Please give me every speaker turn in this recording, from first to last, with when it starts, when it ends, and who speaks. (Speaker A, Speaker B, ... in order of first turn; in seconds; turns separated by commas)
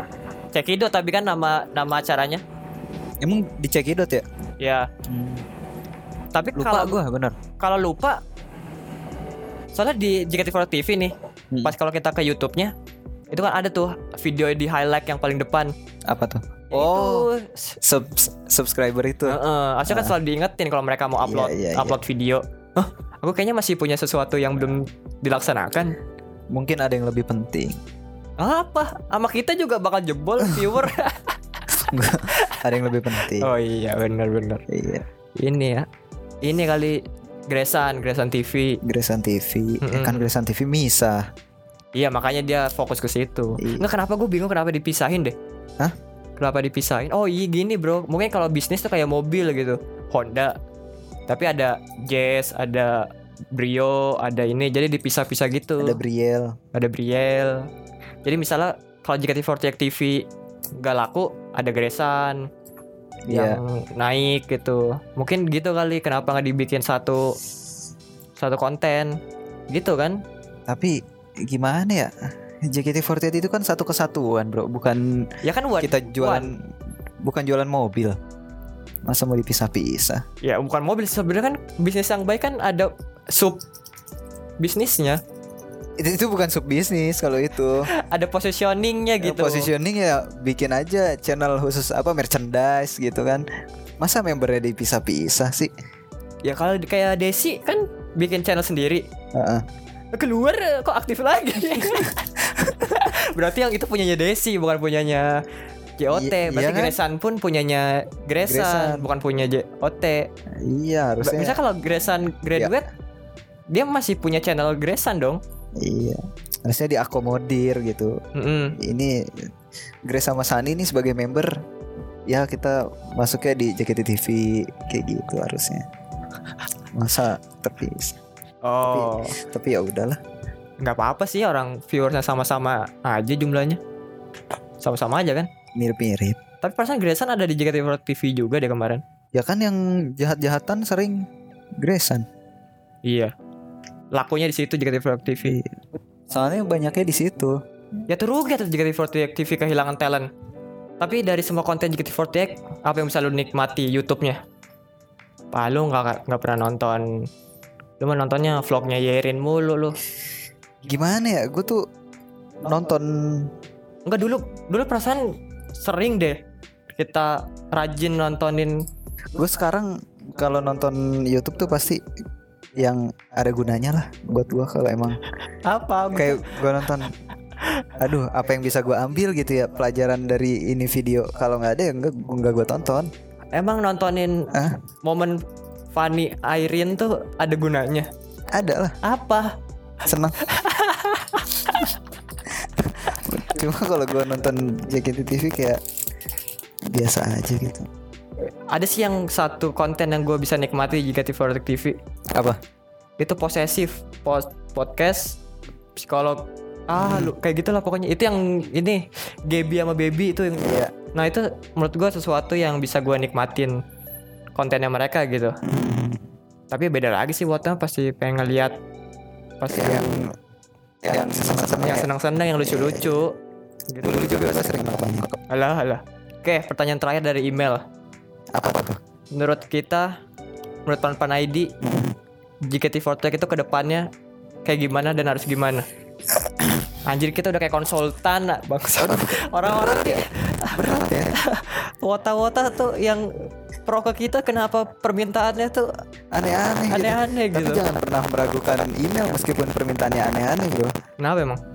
Speaker A: 0.5-2.4, Speaker B: 3.2-4.2, Speaker A: 4.6-4.9, Speaker B: 5.1-5.5, Speaker A: 6.3-7.0, Speaker B: 6.5-7.4, Speaker A: 7.6-8.2, Speaker A: 9.8-12.7, Speaker A: 13.3-15.7, Speaker B: 16.1-17.3, Speaker A: 16.7-17.8, Speaker B: 17.8-20.2, Speaker A: 19.2-25.9, Speaker B: 21.2-22.0, Speaker B: 26.5-27.8, Speaker A: 28.4-31.4, Speaker B: 31.8-33.5, Speaker A: 32.3-32.6, Speaker A: 33.2-34.6, Speaker B: 34.7-35.0, Speaker A: 35.4-35.9, Speaker A: 36.4-38.8, Speaker B: 38.8-41.3, Speaker A: 39.8-40.3, Speaker A: 42.0-45.4, Speaker B: 43.6-43.9, Speaker A: 46.4-50.6, Speaker A: 51.3-56.0, Speaker B: 55.8-56.6, Speaker A: 56.7-57.7, Speaker A: 58.2-60.3, Speaker A: 60.8-62.5, Speaker B: 63.3-63.6, Speaker A: 63.3-67.4, Speaker A: 68.4-69.2, Speaker A: 69.7-70.2, Speaker B: 70.7-72.1, Speaker B: 72.6-75.3, Speaker A: 75.4-76.5, Speaker B: 75.8-76.7, Speaker B: 77.2-78.2, Speaker B: 79.1-80.2, Speaker A: 80.4-83.6, Speaker A: 84.6-85.2, Speaker B: 86.0-87.9, Speaker A: 87.8-89.7, Speaker B: 89.2-93.5, Speaker B: 94.0-95.7, Speaker A: 96.4-99.1, Speaker B: 99.3-99.7, Speaker A: 100.1-105.4, Speaker A: 106.0-110.3, Speaker B: 106.1-107.0, Speaker B: 108.4-109.1, Speaker B: 110.5-111.6, Speaker A: 111.2-112.8, Speaker A: 113.7-115.4, Speaker B: 115.8-118.2, Speaker A: 118.3-118.8, Speaker B: 118.8-119.5, Speaker B: 120.1-121.6, Speaker B: 122.3-125.9, Speaker B: 126.9-128.2, Speaker A: 128.7-129.4, Speaker B: 128.8-130.2, Speaker A: 130.8-133.8, Speaker A: 134.8-135.5, Speaker B: 135.8-136.4, Speaker A: 136.6-139.0, Speaker B: 139.3-141.3, Speaker B: 141.8-142.3, Speaker A: 143.1-143.3, Speaker A: 144.1-145.6, Speaker B: 145.4-147.6, Speaker A: 148.1-150.3, Speaker A: 151.0-154.4, Speaker A: 155.5-157.2, Speaker A: 158.0-160.0, Speaker B: 160.8-161.8, Speaker B: 162.6-163.5, Speaker A: 164.1-166.4, Speaker A: 167.0-168.8, Speaker B: 169.3-172.0, Speaker B: 172.8-175.2, Speaker A: 175.7-176.9, Speaker B: 176.1-177.1, Speaker B: 178.0-183.1, Speaker A: 183.5-184.5, Speaker B: 184.5-184.8, Speaker A: 185.0-185.4, Speaker A: 185.9-188.1, Speaker B: 188.5-189.0, Speaker A: 189.0-189.6, Speaker B: 190.0-190.4, Speaker A: 190.4-191.9, Speaker B: 192.6-195.8, Speaker B: 196.9-197.9, Speaker A: 198.7-202.0, Speaker B: 202.3-202.6, Speaker A: 203.2-205.4, Speaker A: 206.0-213.8, Speaker B: 207.0-207.3, Speaker B: 210.6-210.9, Speaker A: 214.6-215.6, Speaker B: 215.6-216.2, Speaker A: 216.7-218.8, Speaker A: 219.6-220.1, Speaker B: 219.7-220.3, Speaker B: 221.0-222.1, Speaker A: 221.8-223.4, Speaker B: 222.6-223.1, Speaker A: 223.9-224.3, Speaker B: 224.0-225.4, Speaker A: 225.5-227.8, Speaker B: 228.5-229.0, Speaker A: 229.3-230.2, Speaker A: 230.9-231.7, Speaker B: 231.8-232.2, Speaker A: 232.6-234.1, Speaker A: 234.7-235.9, Speaker B: 236.5-236.8, Speaker A: 237.0-240.8, Speaker B: 239.0-241.3, Speaker A: 241.3-245.9, Speaker B: 246.3-250.9, Speaker A: 246.9-247.8, Speaker A: 251.2-251.6